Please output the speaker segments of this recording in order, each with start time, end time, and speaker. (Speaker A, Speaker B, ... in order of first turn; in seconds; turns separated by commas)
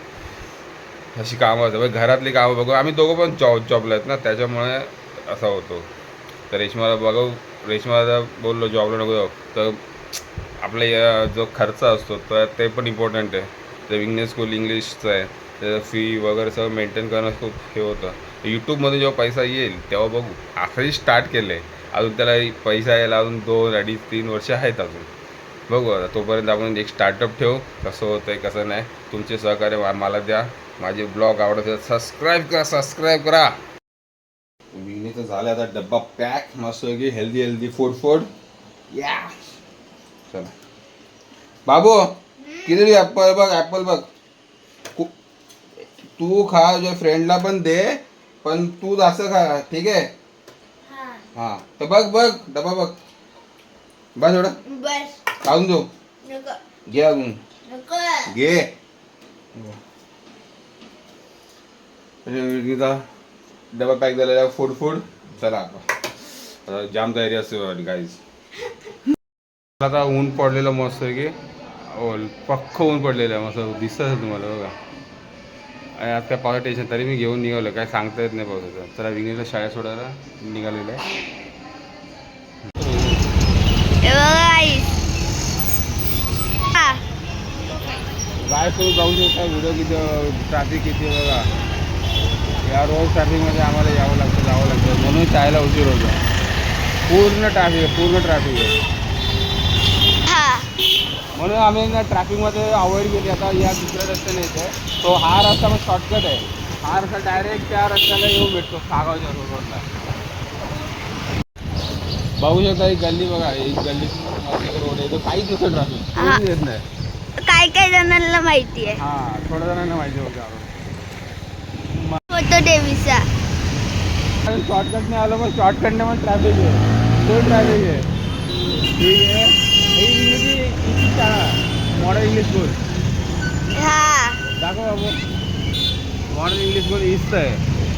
Speaker A: 1.1-5.9, Speaker A: 6.5-9.8, Speaker A: 10.6-25.1, Speaker A: 25.7-33.6, Speaker A: 34.7-38.3, Speaker A: 38.9-39.3, Speaker A: 40.3-40.5, Speaker A: 41.6-44.1, Speaker A: 46.1-50.1, Speaker B: 50.9-51.2, Speaker A: 51.3-53.0, Speaker A: 54.1-54.6, Speaker B: 54.6-55.2, Speaker A: 55.4-55.9, Speaker B: 56.2-56.6, Speaker A: 56.9-57.4, Speaker B: 57.7-58.3, Speaker A: 58.2-58.7, Speaker A: 62.2-63.0, Speaker A: 63.7-68.2, Speaker A: 69.8-74.8, Speaker A: 75.9-81.0, Speaker A: 82.7-83.3, Speaker B: 84.0-84.9, Speaker B: 86.7-87.0, Speaker A: 88.4-91.5, Speaker A: 92.6-96.2, Speaker A: 97.1-98.8, Speaker B: 100.2-100.7, Speaker A: 101.3-109.9, Speaker A: 112.4-116.8, Speaker B: 116.1-116.4, Speaker B: 117.4-119.0, Speaker A: 119.0-120.7, Speaker B: 122.3-123.3, Speaker A: 124.4-128.1, Speaker A: 128.9-132.8, Speaker B: 133.7-134.4, Speaker A: 134.5-135.2, Speaker A: 136.3-137.6